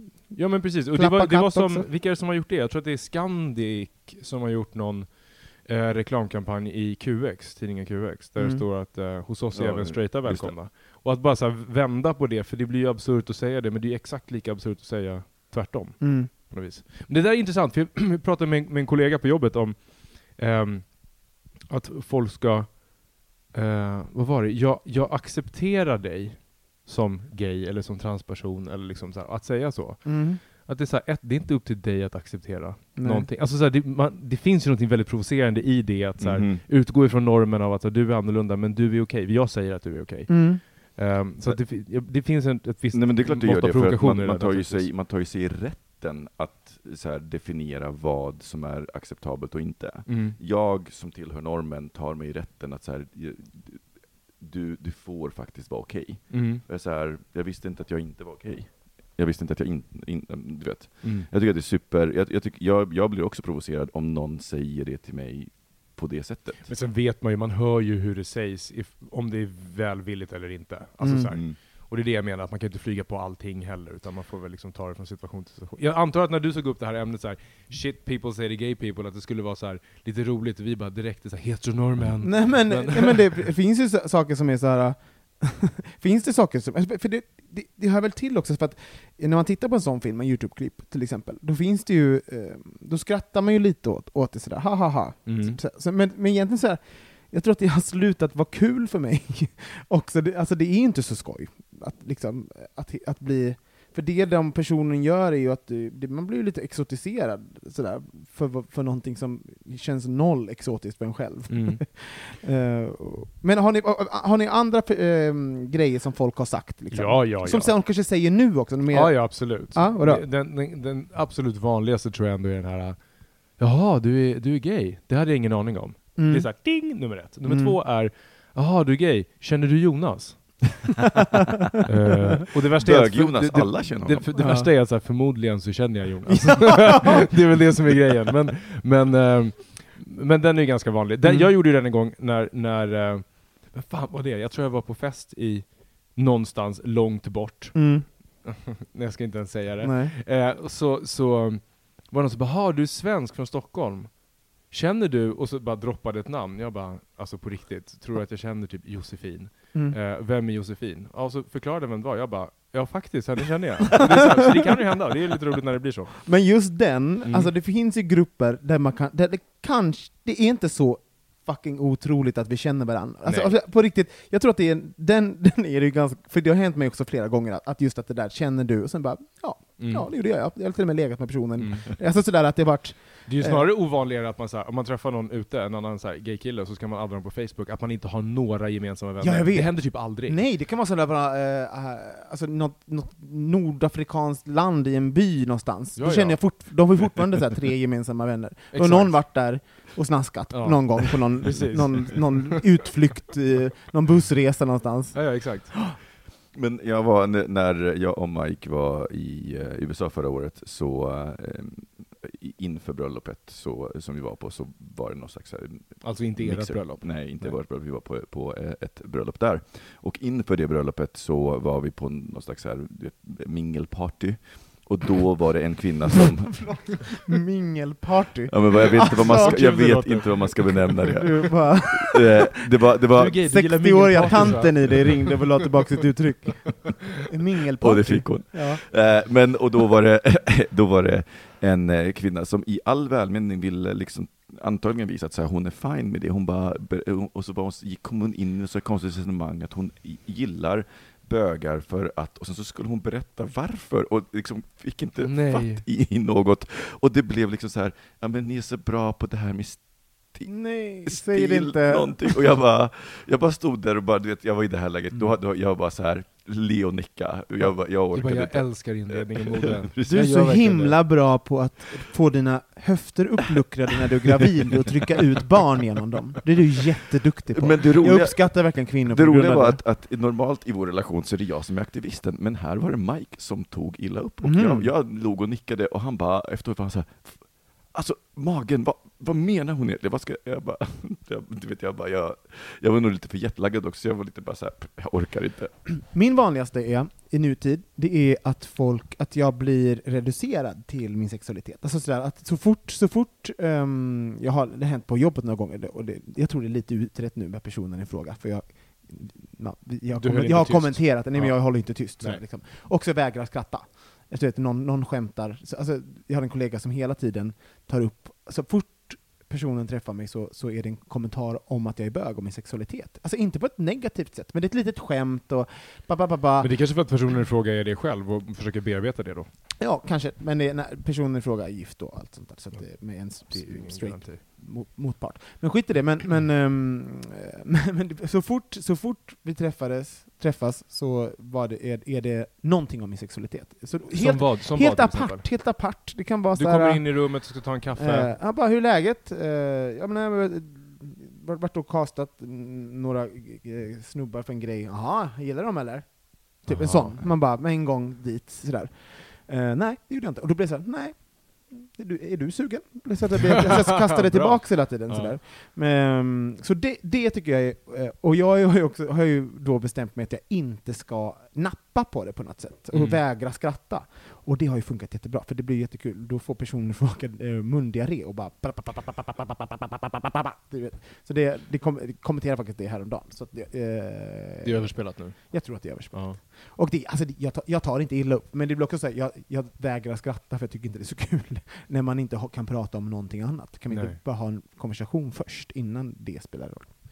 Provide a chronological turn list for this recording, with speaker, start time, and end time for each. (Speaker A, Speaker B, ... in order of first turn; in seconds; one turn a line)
Speaker A: 0.3-44.9
Speaker B: 0.9-1.9
Speaker B: 8.4-8.7
Speaker C: 9.5-10.6
Speaker B: 16.0-16.3
Speaker B: 30.0-30.4
Speaker B: 33.0-33.3
Speaker C: 36.2-36.6
Speaker B: 40.3-40.6
Speaker C: 42.9-66.7
Speaker A: 50.0-50.4
Speaker A: 56.3-56.6
Speaker A: 61.0-61.3
Speaker A: 66.7-83.4
Speaker B: 71.0-71.4
Speaker C: 71.3-71.6
Speaker B: 82.2-120.3
Speaker A: 95.2-95.6
Speaker A: 111.5-111.8
Speaker A: 116.9-117.8
Speaker A: 118.9-130.8
Speaker B: 126.2-127.8
Speaker A: 131.8-166.7
Speaker C: 132.8-134.3
Speaker B: 134.3-134.7
Speaker B: 136.3-137.0
Speaker B: 141.2-141.5
Speaker B: 147.7-148.1
Speaker B: 149.8-150.2
Speaker B: 159.7-160.0
Speaker B: 166.2-183.7
Speaker A: 167.2-167.5
Speaker A: 173.2-173.5
Speaker A: 179.8-180.1
Speaker A: 181.6-182.0
Speaker A: 183.2-190.4
Speaker B: 189.2-205.7
Speaker A: 196.0-197.0
Speaker A: 198.7-199.8
Speaker A: 200.5-202.6
Speaker A: 205.1-205.9
Speaker C: 206.5-227.1
Speaker A: 216.0-217.6
Speaker B: 226.6-229.6
Speaker C: 228.5-233.6
Speaker A: 228.9-231.2
Speaker B: 231.1-232.5
Speaker A: 233.1-235.2
Speaker B: 233.4-238.8
Speaker C: 234.2-234.9
Speaker C: 237.8-270.2
Speaker A: 255.2-255.8
Speaker B: 260.4-262.3
Speaker B: 265.1-265.4
Speaker A: 268.1-271.0
Speaker B: 270.1-279.8
Speaker C: 277.5-295.9
Speaker B: 284.4-284.9
Speaker B: 296.0-327.3
Speaker A: 310.1-312.4
Speaker A: 326.6-329.5
Speaker B: 329.8-396.9
Speaker A: 332.7-334.4
Speaker A: 344.1-348.3
Speaker C: 356.7-357.2
Speaker A: 363.7-365.4
Speaker A: 372.9-373.2
Speaker A: 384.6-386.4
Speaker A: 393.9-394.2